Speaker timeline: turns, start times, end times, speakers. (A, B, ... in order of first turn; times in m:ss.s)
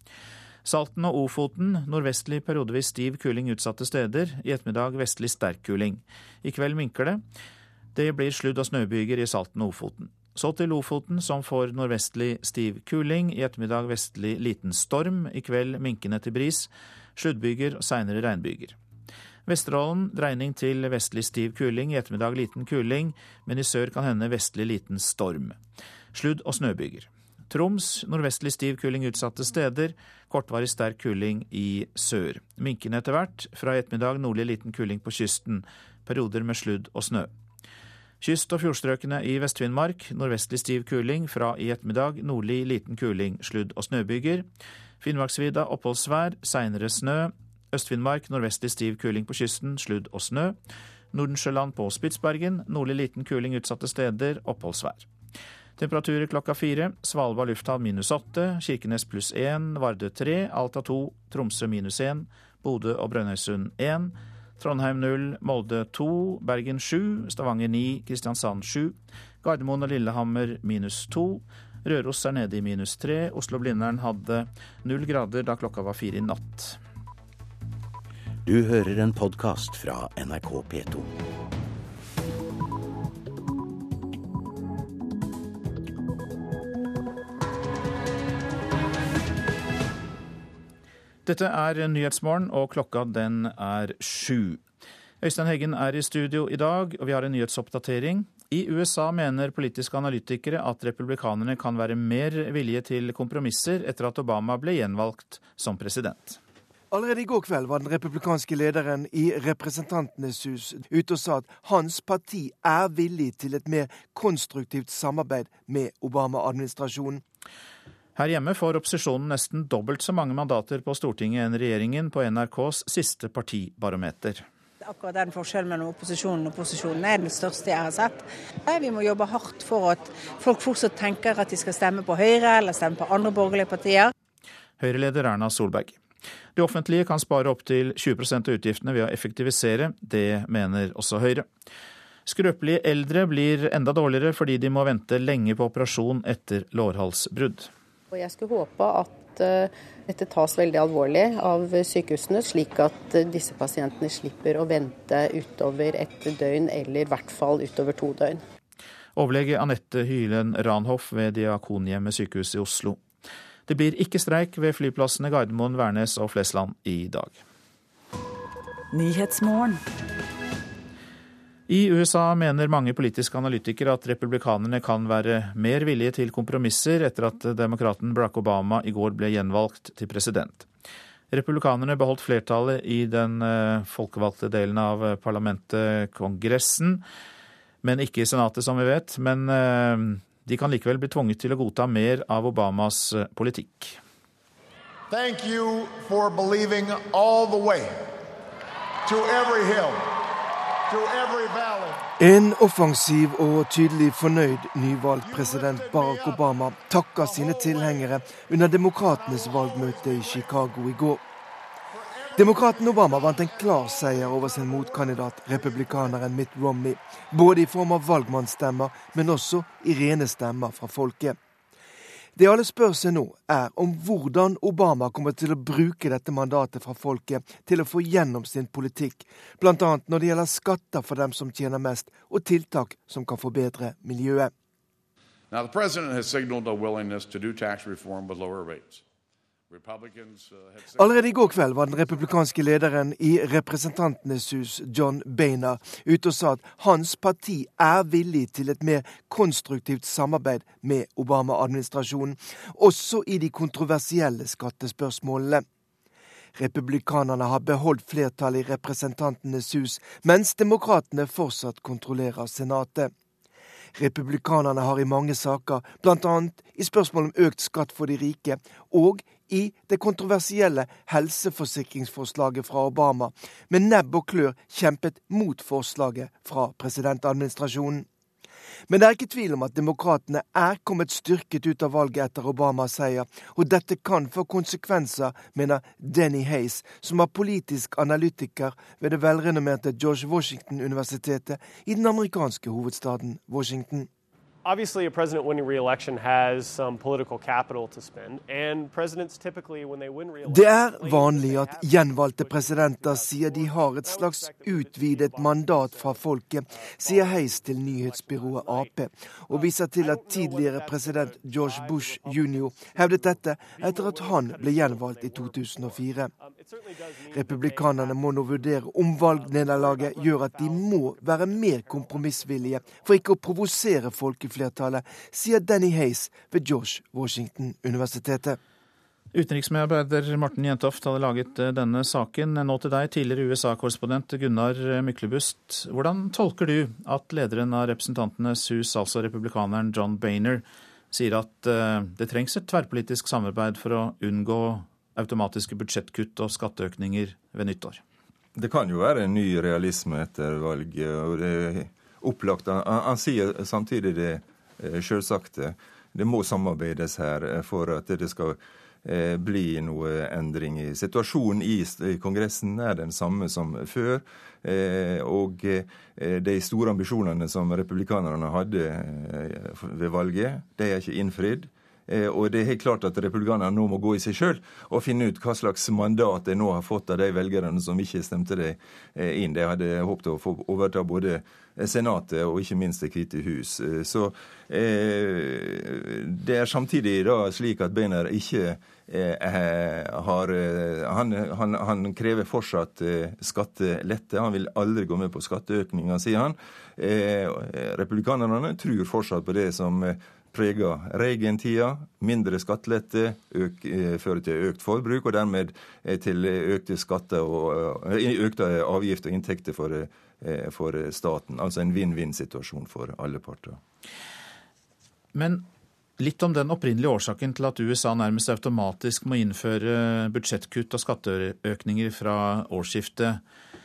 0:00.6-0:07.2 A
0:07.9-0:18.8 A
0:19.4-0:25.6 A
0:26.1-0:37.3 A
0:38.2-0:44.5 A
0:45.0-0:50.6 A
0:51.1-0:55.1 A
0:55.8-1:16.8 A
1:18.4-1:21.1 B
1:31.2-1:34.6 A
1:35.2-1:46.4 A
1:47.0-1:57.2 C
1:58.2-2:04.4 A
2:04.8-2:14.1 D
2:14.8-2:16.0 A
2:16.6-2:21.5 A
2:22.2-2:27.7 A
2:28.1-2:38.4 E
2:39.2-2:43.0 A
2:43.7-2:47.4 A
2:51.7-3:00.7 A
3:01.3-3:07.0 A
3:07.8-3:14.0 A
3:15.1-3:17.8 F
3:19.1-3:20.0 F
3:20.9-3:21.9 F
3:22.2-3:31.2 C
3:25.2-3:28.2 F
3:28.8-3:30.8 F
3:32.3-3:36.2 F
3:32.3-3:41.4 C
3:42.4-3:54.5 C
3:55.5-3:59.0 F
3:59.7-4:02.5 F
4:00.9-4:15.6 C
4:16.6-4:23.1 C
4:24.0-4:38.0 C
4:38.9-4:54.1 C
4:54.6-5:08.9 G
5:00.5-5:16.3 C
5:09.5-5:23.2 G
5:17.3-5:28.6 C
5:29.3-5:48.0 A
5:48.6-6:53.8 H
6:55.3-6:55.6 A
6:56.2-7:03.4 A